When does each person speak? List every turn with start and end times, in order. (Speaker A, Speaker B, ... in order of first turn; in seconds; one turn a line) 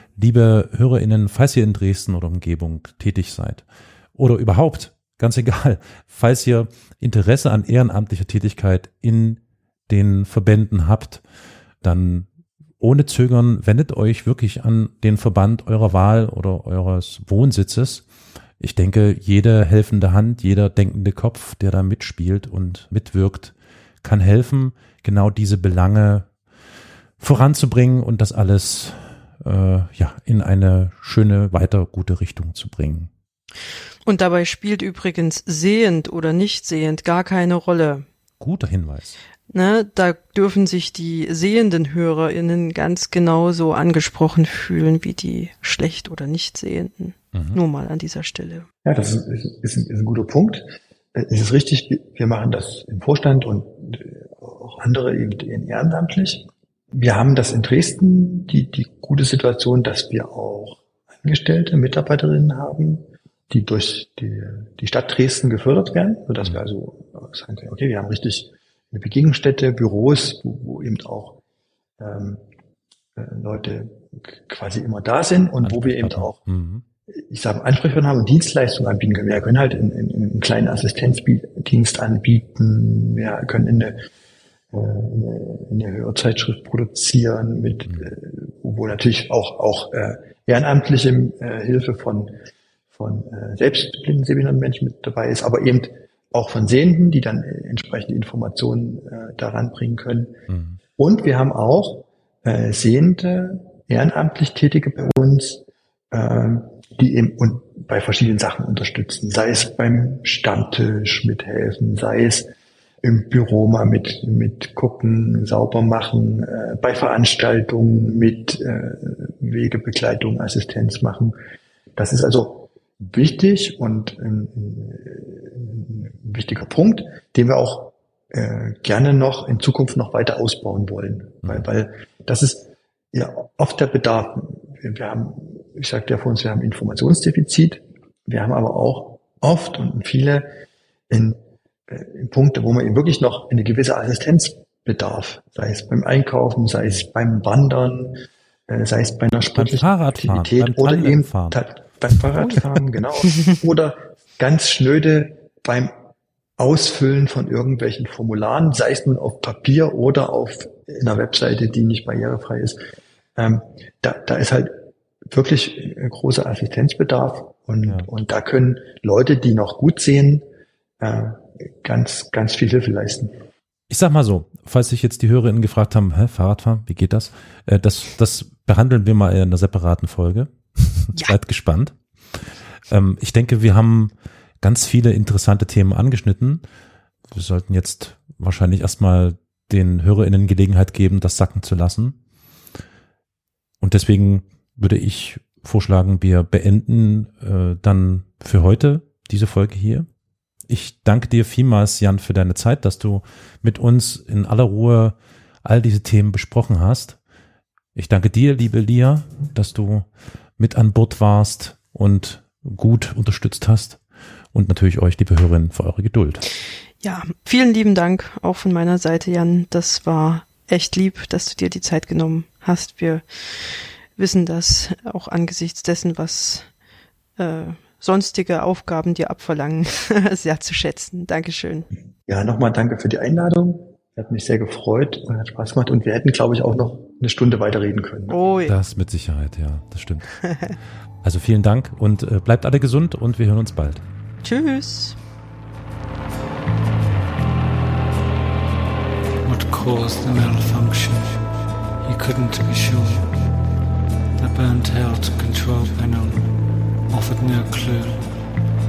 Speaker A: 0.1-11.2
Speaker A: 11.8-12.3
Speaker A: 12.8-18.1
Speaker A: 18.6-26.3
Speaker A: 27.2-33.1
Speaker B: 34.0-38.1
Speaker A: 38.4-39.2
Speaker B: 39.5-48.7
Speaker A: 47.3-47.6
Speaker C: 48.9-71.4
Speaker C: 72.0-72.4
Speaker C: 73.2-76.4
Speaker A: 75.6-76.8
Speaker C: 77.1-84.0
Speaker C: 84.7-92.4
Speaker C: 92.9-100.4
Speaker A: 100.5-100.8
Speaker C: 101.0-112.5
Speaker C: 113.0-121.4
Speaker C: 122.0-140.5
Speaker C: 141.1-155.9
Speaker A: 149.5-151.6
Speaker C: 156.6-162.8
Speaker C: 163.4-170.4
Speaker C: 171.0-173.3
Speaker A: 173.9-186.6
Speaker A: 187.3-192.2
Speaker A: 193.8-200.1
Speaker A: 200.7-207.2
Speaker A: 207.9-214.0
Speaker A: 214.5-216.4
Speaker B: 217.0-226.7
Speaker B: 227.4-231.9
Speaker C: 232.3-238.4
Speaker B: 238.3-238.8
Speaker A: 238.7-240.6
Speaker A: 241.2-244.0
Speaker B: 244.4-245.2
Speaker D: 249.4-253.5
Speaker D: 254.4-258.6